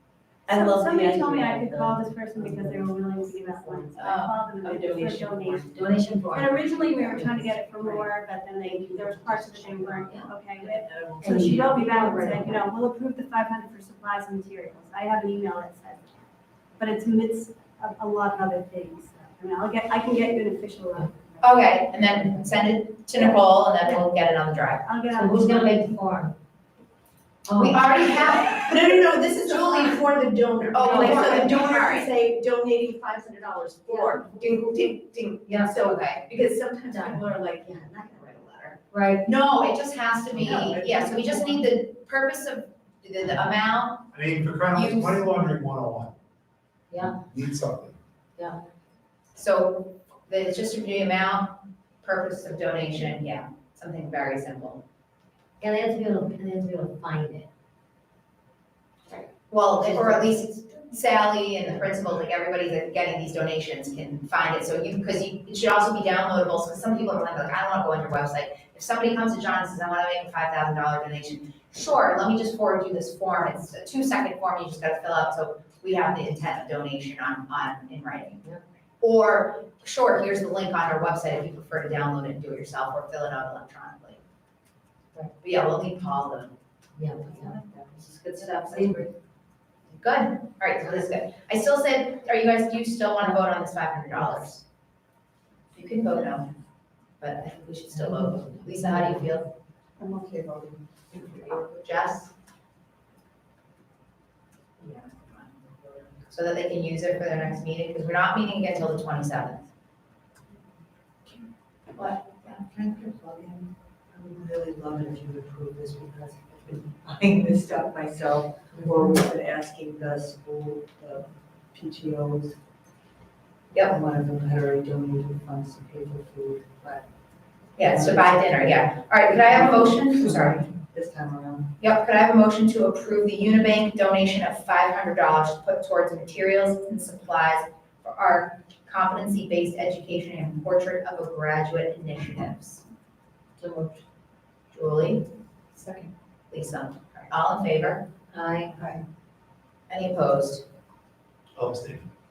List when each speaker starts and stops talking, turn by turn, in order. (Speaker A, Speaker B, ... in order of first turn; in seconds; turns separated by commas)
Speaker A: 0.5-5.8, Speaker B: 0.5-1.7, Speaker C: 2.4-2.8, Speaker B: 4.0-5.8, Speaker D: 4.0-4.3, Speaker C: 5.7-7.5, Speaker A: 6.3-22.3, Speaker C: 8.8-9.2, Speaker B: 9.2-9.9, Speaker C: 9.9-10.3, Speaker B: 10.6-11.8, Speaker C: 11.2-12.7, Speaker D: 21.4-24.9, Speaker A: 24.9-25.8, Speaker C: 25.1-26.3, Speaker C: 27.4-27.9, Speaker D: 27.5-30.0, Speaker B: 28.0-38.8, Speaker D: 30.7-32.1, Speaker C: 33.9-34.2, Speaker C: 35.5-35.8, Speaker D: 35.8-36.2, Speaker C: 36.9-37.2, Speaker C: 38.9-39.2, Speaker D: 39.2-44.1, Speaker B: 40.3-41.3, Speaker E: 44.1-46.1, Speaker D: 44.7-45.3, Speaker C: 46.9-47.2, Speaker E: 47.2-48.0, Speaker D: 49.3-54.8, Speaker C: 55.6-57.5, Speaker D: 59.5-78.5, Speaker C: 59.9-60.2, Speaker D: 79.0-84.2, Speaker D: 85.4-86.5, Speaker C: 87.0-87.5, Speaker C: 88.4-89.0, Speaker D: 88.7-88.9, Speaker D: 89.9-94.6, Speaker C: 94.2-94.4, Speaker D: 95.7-96.5, Speaker D: 97.2-99.5, Speaker C: 97.9-99.3, Speaker F: 100.0-100.8, Speaker D: 101.1-102.3, Speaker D: 104.8-109.7, Speaker D: 111.9-113.7, Speaker F: 114.1-122.5, Speaker F: 123.8-127.0, Speaker D: 127.8-130.7, Speaker F: 127.9-128.6, Speaker F: 129.4-131.7, Speaker D: 131.8-142.8, Speaker C: 143.6-144.0, Speaker D: 144.7-145.2, Speaker D: 146.5-148.1, Speaker C: 148.3-148.9, Speaker D: 149.9-150.6, Speaker E: 151.5-152.1